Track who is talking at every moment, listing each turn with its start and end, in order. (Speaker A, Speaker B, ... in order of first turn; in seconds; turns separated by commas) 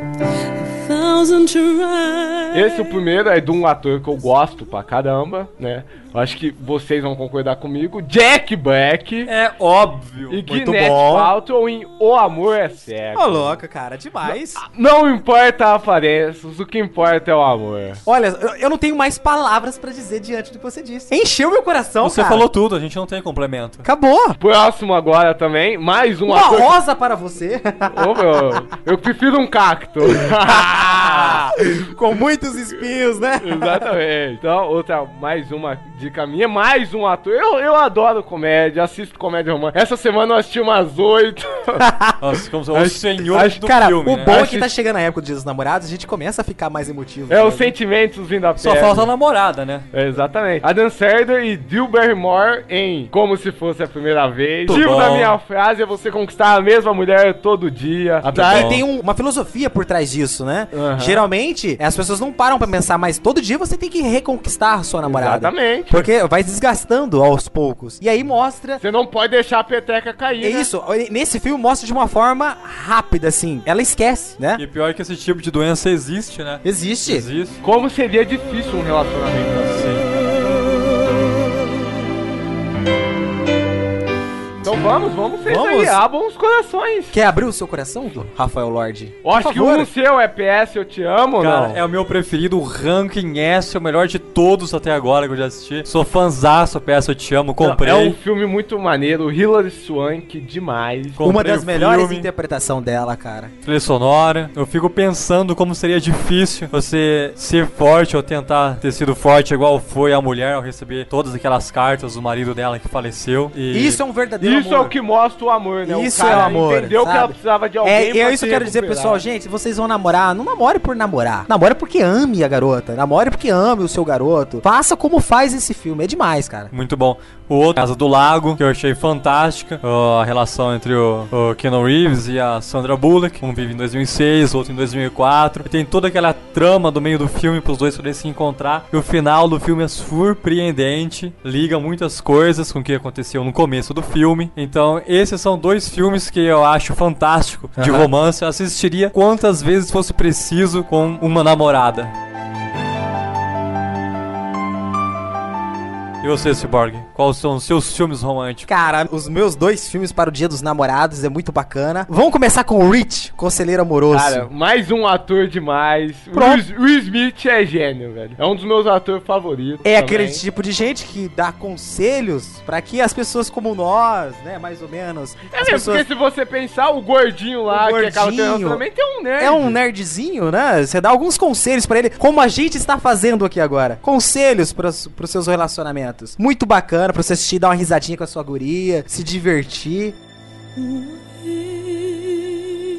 Speaker A: 0.6-2.9, Speaker B: 2.5-9.3, Speaker C: 9.3-10.4, Speaker B: 10.3-13.6, Speaker D: 10.5-11.3, Speaker D: 13.2-14.6, Speaker B: 14.2-18.0, Speaker D: 18.1-22.4, Speaker C: 22.0-23.9, Speaker D: 23.8-24.4, Speaker B: 24.4-26.8, Speaker D: 26.3-28.2, Speaker B: 27.9-31.6, Speaker D: 30.5-33.9, Speaker B: 33.4-41.9, Speaker D: 41.8-42.2, Speaker C: 42.2-44.6, Speaker B: 42.7-43.6, Speaker D: 43.3-47.7, Speaker B: 44.2-44.6, Speaker B: 47.3-49.1, Speaker C: 48.6-49.9, Speaker B: 49.9-58.8, Speaker C: 54.7-55.4, Speaker C: 58.2-58.8, Speaker D: 58.3-68.8, Speaker B: 60.7-61.2, Speaker B: 65.0-66.1, Speaker B: 68.8-70.7, Speaker D: 70.4-74.6, Speaker C: 74.6-77.6, Speaker D: 76.6-77.3, Speaker B: 77.6-79.9, Speaker C: 79.7-80.1, Speaker B: 84.6-87.1, Speaker D: 85.5-86.0, Speaker D: 87.1-89.9, Speaker B: 89.2-91.8, Speaker C: 91.4-98.2, Speaker B: 97.6-101.2, Speaker C: 101.2-102.3, Speaker D: 101.2-103.5, Speaker C: 103.6-114.0, Speaker D: 113.7-115.0, Speaker B: 114.4-119.2, Speaker D: 115.8-126.7, Speaker C: 116.3-116.6, Speaker C: 126.7-152.1, Speaker D: 147.8-148.1, Speaker C: 156.2-158.7, Speaker D: 158.7-164.5, Speaker B: 164.1-170.4, Speaker D: 166.3-166.6, Speaker D: 169.8-176.1, Speaker B: 175.6-179.8, Speaker D: 177.7-178.8, Speaker D: 179.4-190.2